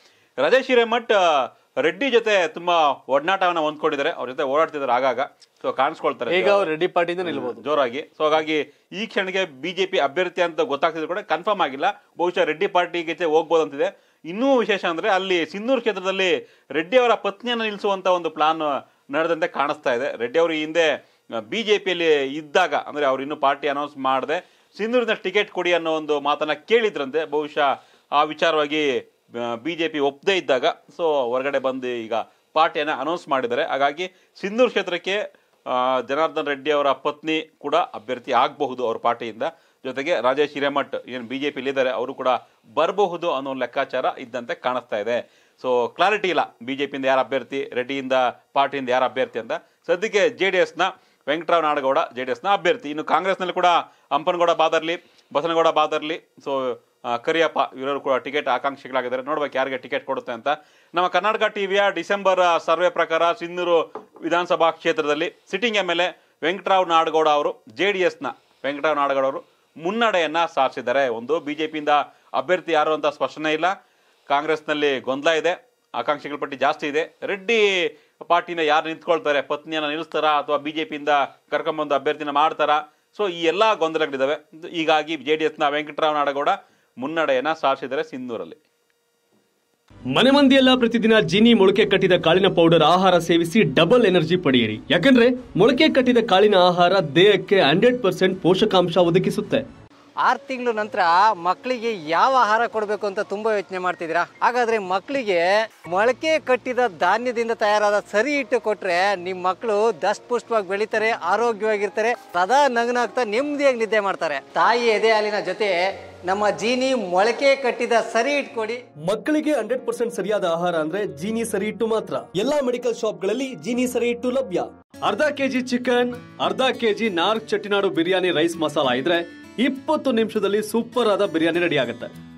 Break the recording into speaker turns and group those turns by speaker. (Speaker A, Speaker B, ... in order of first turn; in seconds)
Speaker A: 0.4-6.7, 7.2-73.7, 74.3-88.6
Speaker B: 6.3-7.6, 90.1-99.6, 119.0-132.1
Speaker C: 100.3-115.7, 116.3-118.8